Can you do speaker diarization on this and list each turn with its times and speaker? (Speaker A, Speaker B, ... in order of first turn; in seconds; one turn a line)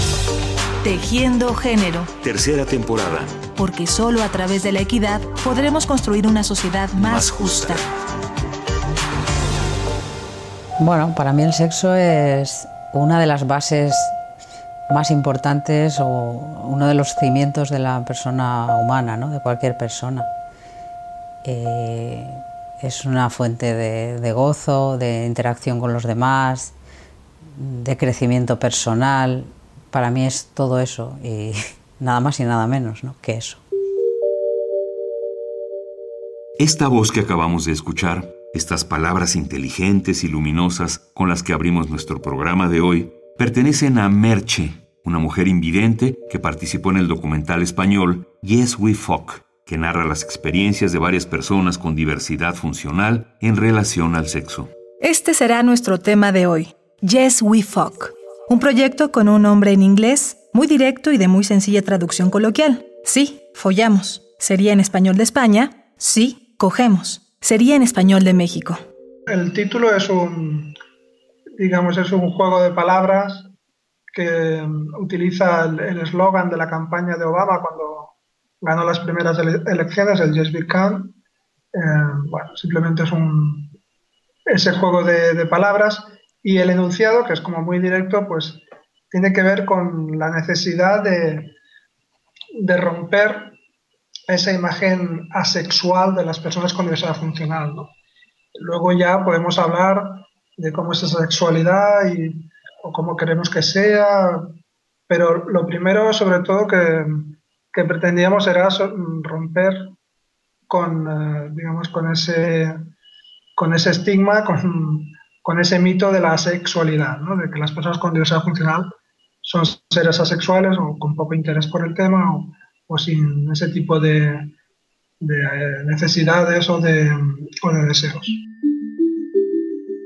Speaker A: 0.8-2.1
Speaker B: 2.2-3.3
Speaker A: 3.5-7.8
Speaker B: 7.0-7.8
Speaker C: 10.8-14.2
Speaker C: 14.9-20.3
Speaker C: 21.4-26.7
Speaker C: 27.6-33.6
Speaker B: 36.6-54.7
Speaker A: 55.0-68.8
Speaker D: 69.3-70.7
Speaker D: 71.6-73.5
Speaker D: 74.1-81.1
Speaker D: 81.7-83.7
Speaker D: 84.5-91.5
Speaker D: 92.6-93.6
Speaker D: 94.3-97.9
Speaker D: 98.6-104.5
Speaker D: 105.1-109.9
Speaker D: 110.7-112.9
Speaker D: 113.5-124.5
Speaker D: 125.2-128.4